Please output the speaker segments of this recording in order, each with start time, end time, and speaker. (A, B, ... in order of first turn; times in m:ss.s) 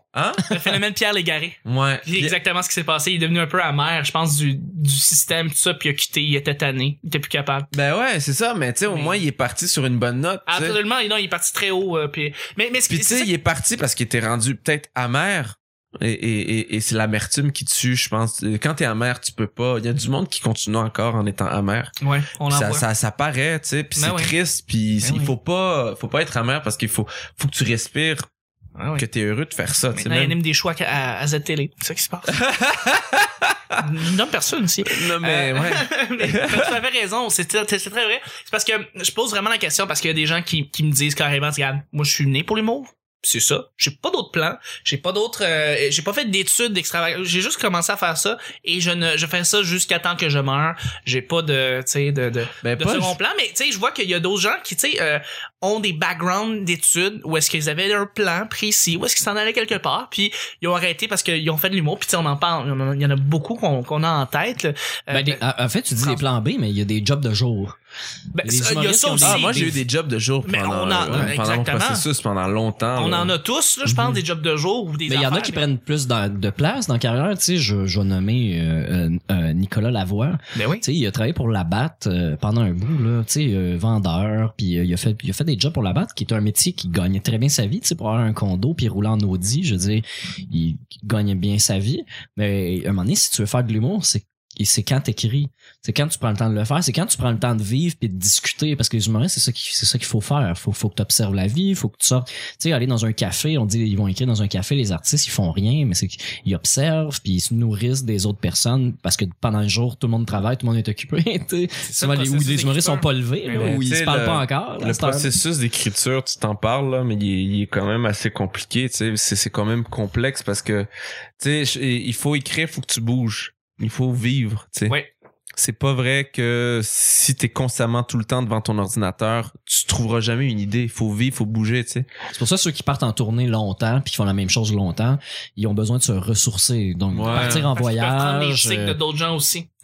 0:00.1-0:00.6 A
0:00.5-0:07.7 B
0:01.6-0:02.3 A
0:07.7-0:10.8 A
0:08.9-0:09.2 B
0:10.5-0:13.3 B
0:12.9-0:21.9 A
0:22.0-0:22.8 B
0:22.5-0:28.2 A
0:24.0-0:24.3 B
0:25.0-0:25.3 B
0:28.8-0:29.0 B
0:29.0-0:30.4 A
0:30.0-0:32.4 B
0:32.3-0:33.8 A
0:33.8-1:05.4 B
0:34.8-0:36.7 A
0:52.6-0:53.2 A
1:05.1-1:07.8 C
1:08.3-1:09.8 B
1:08.4-1:09.7 C
1:09.2-1:13.3 A
1:10.4-1:12.0 B
1:12.9-1:15.6 B
1:13.9-1:14.2 C
1:15.1-1:55.3 C
1:20.5-1:20.8 B
1:51.8-1:53.8 B
1:53.6-2:00.9 A
2:01.4-2:05.0 A
2:05.6-2:12.1 A
2:12.3-2:19.0 C
2:17.1-2:17.7 A
2:17.3-2:19.7 B